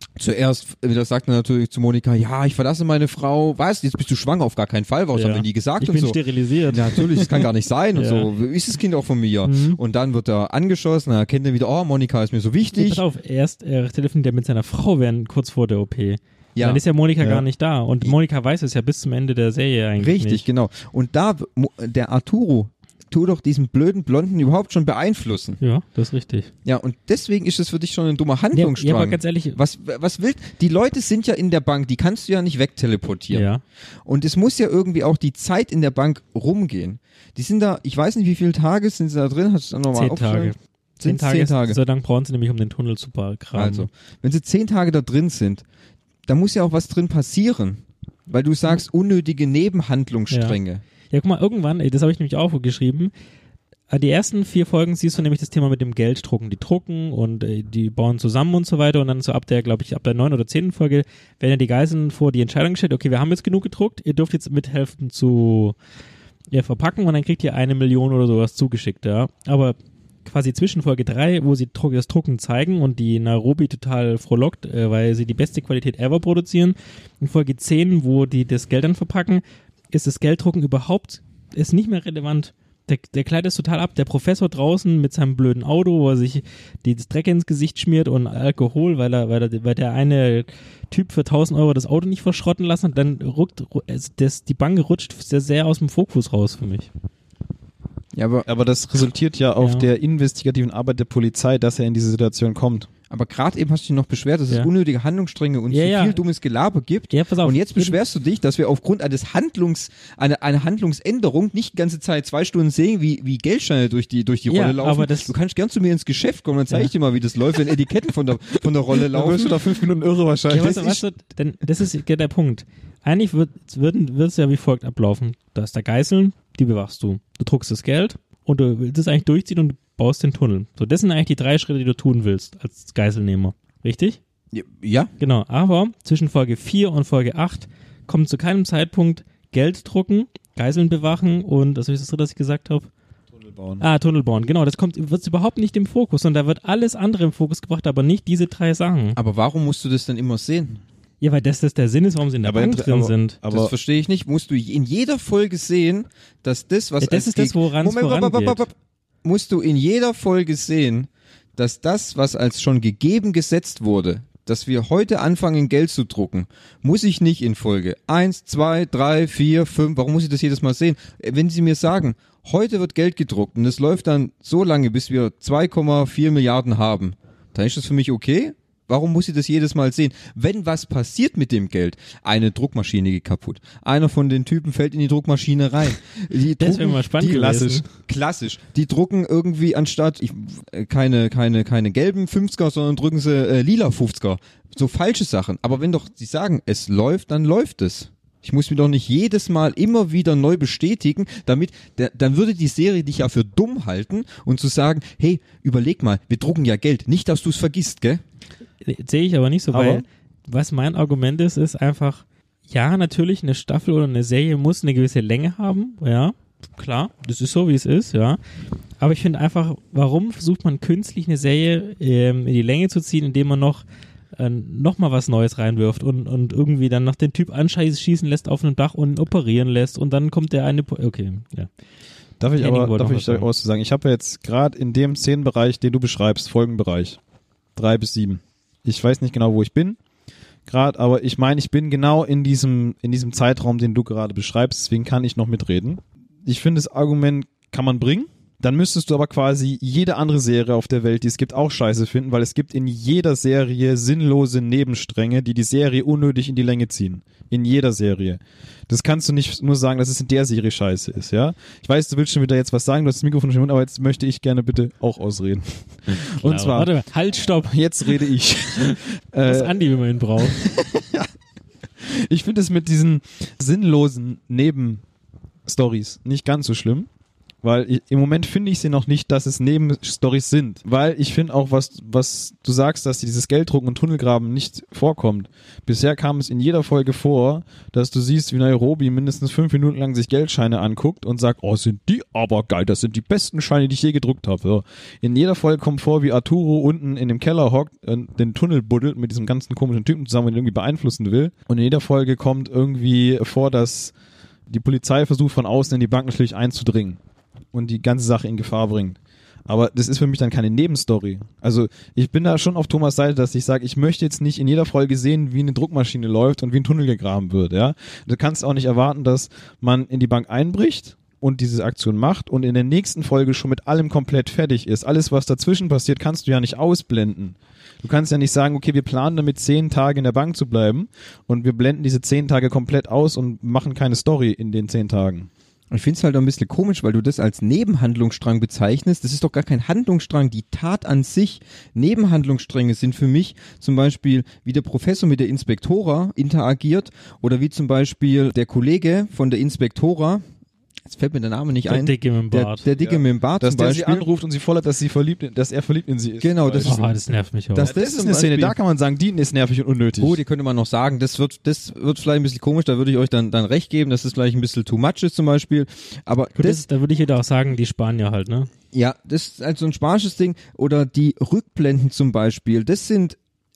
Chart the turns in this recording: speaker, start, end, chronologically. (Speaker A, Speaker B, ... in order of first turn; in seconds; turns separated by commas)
Speaker A: 0.2-6.2, Speaker B: 5.1-7.4, Speaker A: 6.7-13.0, Speaker B: 8.0-8.3, Speaker B: 9.4-9.8, Speaker B: 12.7-20.4, Speaker A: 16.6-16.8, Speaker A: 20.0-25.6, Speaker B: 25.6-26.5, Speaker A: 26.6-33.5, Speaker B: 28.5-29.6, Speaker B: 33.3-33.6, Speaker A: 34.0-41.8, Speaker B: 39.9-43.9, Speaker A: 43.5-45.6, Speaker A: 46.3-50.8, Speaker B: 50.3-50.6, Speaker B: 51.1-53.1, Speaker B: 53.9-65.8, Speaker B: 66.5-96.9, Speaker A: 98.1-98.5, Speaker C: 98.5-102.9, Speaker B: 99.6-99.8, Speaker A: 103.1-119.6, Speaker B: 105.7-106.2, Speaker B: 107.1-108.0, Speaker B: 114.5-115.3, Speaker C: 118.9-121.0, Speaker B: 120.5-134.2, Speaker A: 134.5-135.1, Speaker B: 135.2-142.9, Speaker C: 143.3-143.8, Speaker B: 143.8-149.2, Speaker A: 149.2-150.8, Speaker B: 151.2-153.4, Speaker C: 152.4-153.7, Speaker A: 153.5-208.2, Speaker B: 157.0-158.6, Speaker B: 186.6-187.8, Speaker C: 187.3-187.8, Speaker B: 208.8-218.4, Speaker C: 209.7-210.0, Speaker B: 219.0-223.8, Speaker B: 224.3-231.7, Speaker C: 232.4-237.2, Speaker B: 232.6-233.5, Speaker C: 237.8-240.0, Speaker C: 240.7-266.9, Speaker B: 266.1-268.2, Speaker C: 267.6-269.8, Speaker B: 268.8-270.6, Speaker C: 270.4-271.3, Speaker C: 272.0-275.0, Speaker C: 275.6-277.1, Speaker C: 277.6-304.1, Speaker C: 304.7-307.2, Speaker C: 307.7-335.5, Speaker A: 335.9-350.4, Speaker A: 351.1-354.2, Speaker B: 351.9-352.8, Speaker C: 352.9-357.1, Speaker A: 356.4-357.1, Speaker B: 356.8-357.9, Speaker A: 357.7-358.7, Speaker C: 357.8-360.4, Speaker A: 360.2-366.8, Speaker B: 366.6-368.7, Speaker A: 368.9-373.4